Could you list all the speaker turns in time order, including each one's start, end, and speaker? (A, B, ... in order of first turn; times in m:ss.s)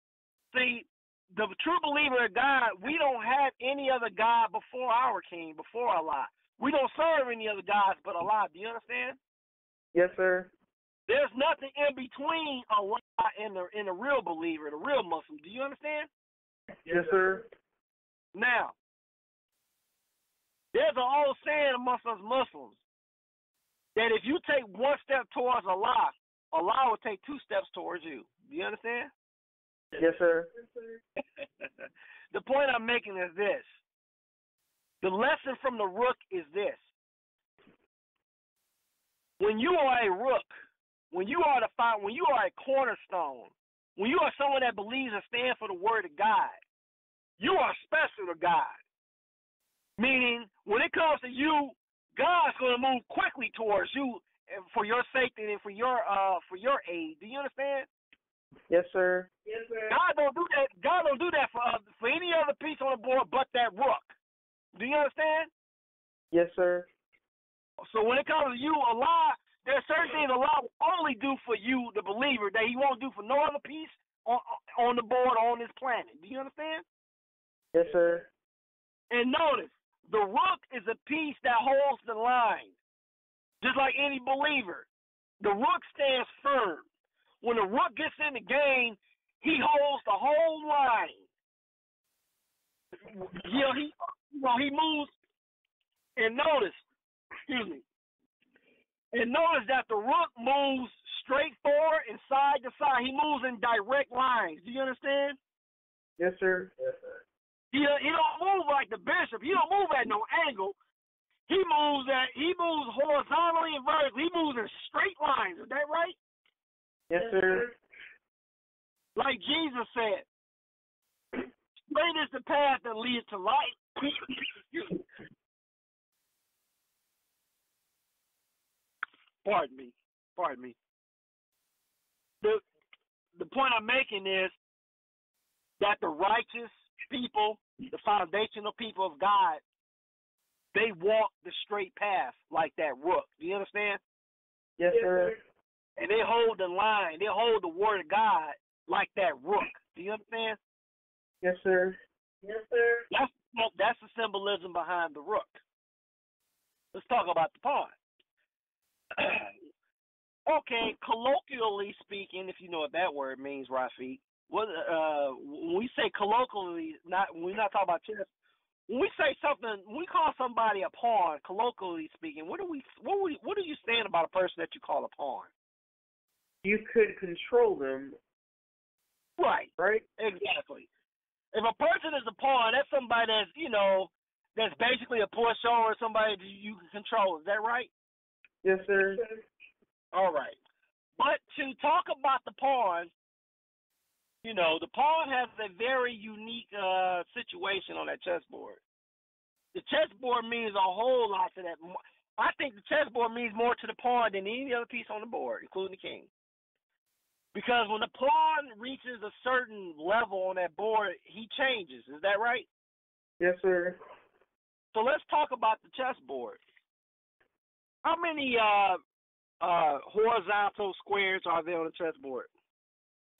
0:00.5-0:09.2 A
0:09.9-0:10.5 B
0:11.1-0:16.1 A
0:16.8-0:17.4 B
0:18.3-0:18.7 A
0:20.7-0:22.8 A
0:24.0-0:29.1 A
0:30.0-0:30.5 B
0:30.5-0:31.0 C
0:32.3-0:33.7 A
0:35.0-0:36.8 A
0:39.4-0:40.5 A
0:41.1-0:46.6 A
0:47.4-0:48.8 A
0:50.0-0:57.9 A
0:58.7-0:59.3 B
0:59.4-1:00.0 C
0:59.9-1:04.1 A
1:04.7-1:05.5 A
1:06.3-1:06.9 B
1:07.8-1:16.8 A
1:17.7-1:18.3 B
1:19.1-1:22.7 A
1:23.6-1:24.9 A
1:25.4-1:26.8 A
1:27.4-1:31.2 A
1:33.1-1:35.1 A
1:36.2-1:36.8 A
1:37.5-1:37.8 A
1:39.1-1:45.4 A
1:46.2-1:46.8 B
1:47.7-1:50.8 A
1:51.5-1:56.1 A
1:57.1-1:57.7 B
1:57.2-1:57.7 C
1:59.2-2:00.3 A
2:01.9-2:05.0 A
2:09.4-2:10.8 A
2:13.4-2:14.6 A
2:15.8-2:19.6 A
2:20.7-2:24.0 A
2:24.8-2:25.3 B
2:24.9-2:25.4 C
2:26.0-2:30.6 A
2:31.4-2:32.0 B
2:32.4-2:33.0 C
2:33.1-2:35.6 A
2:36.9-2:37.9 A
2:39.1-2:39.5 A
2:40.5-2:48.3 A
2:48.9-2:55.5 A
2:56.6-2:58.2 B
2:59.4-3:00.9 A
2:59.8-3:00.0 B
3:01.5-3:07.9 A
3:08.6-3:09.2 B
3:09.1-3:09.4 C
3:10.1-3:10.6 A
3:11.2-3:13.1 A
3:14.4-3:18.8 A
3:19.7-3:26.3 A
3:27.5-3:32.7 A
3:33.4-3:34.0 B
3:34.9-3:36.6 A
3:38.0-3:39.0 A
3:39.6-3:42.5 A